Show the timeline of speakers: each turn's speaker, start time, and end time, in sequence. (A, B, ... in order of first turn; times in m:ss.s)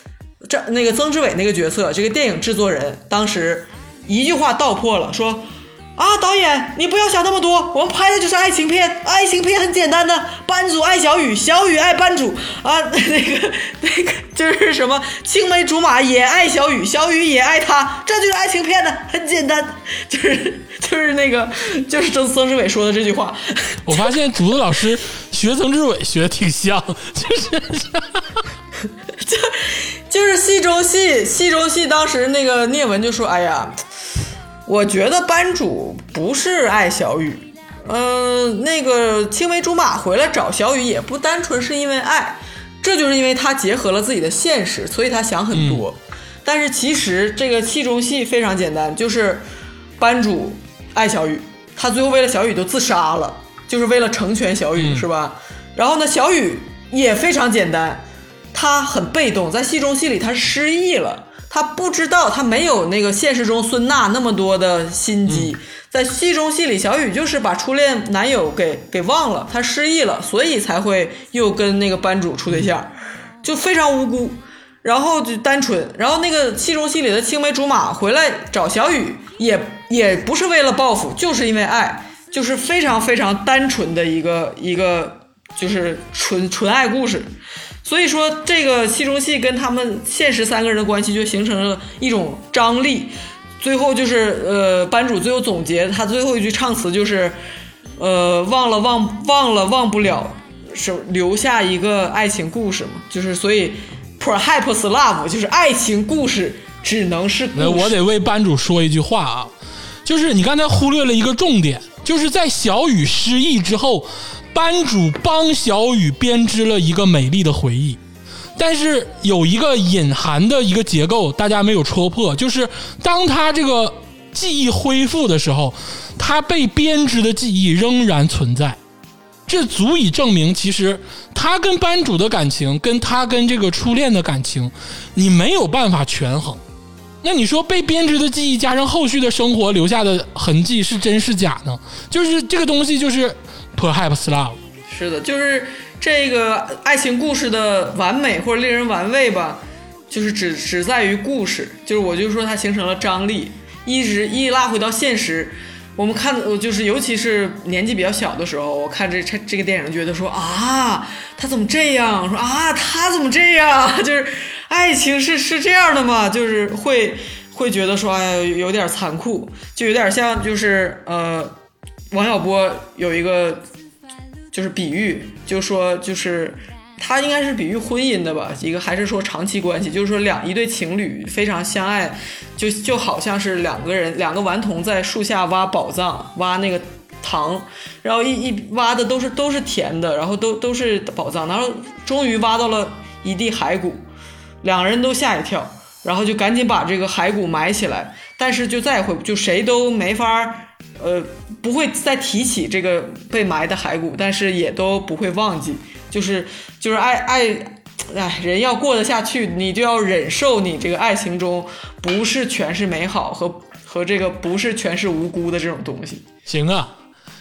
0:00.4-0:24.1 A
0:23.9-0:28.2 B
0:29.2-0:33.8 A
0:34.7-0:49.4 A
0:45.5-0:45.8 B
0:50.0-1:12.9 A
0:54.8-0:55.0 B
1:05.3-1:05.5 B
1:13.4-1:27.3 A
1:27.8-1:37.4 A
1:38.0-1:48.0 A
1:47.6-1:49.5 B
1:50.0-1:58.0 B
1:58.6-2:08.8 B
2:09.5-2:16.6 B
2:17.2-2:24.6 B
2:24.9-2:51.6 A
2:52.1-2:53.6 A
2:54.5-3:14.0 A
3:14.6-3:36.2 A
3:36.5-3:36.9 B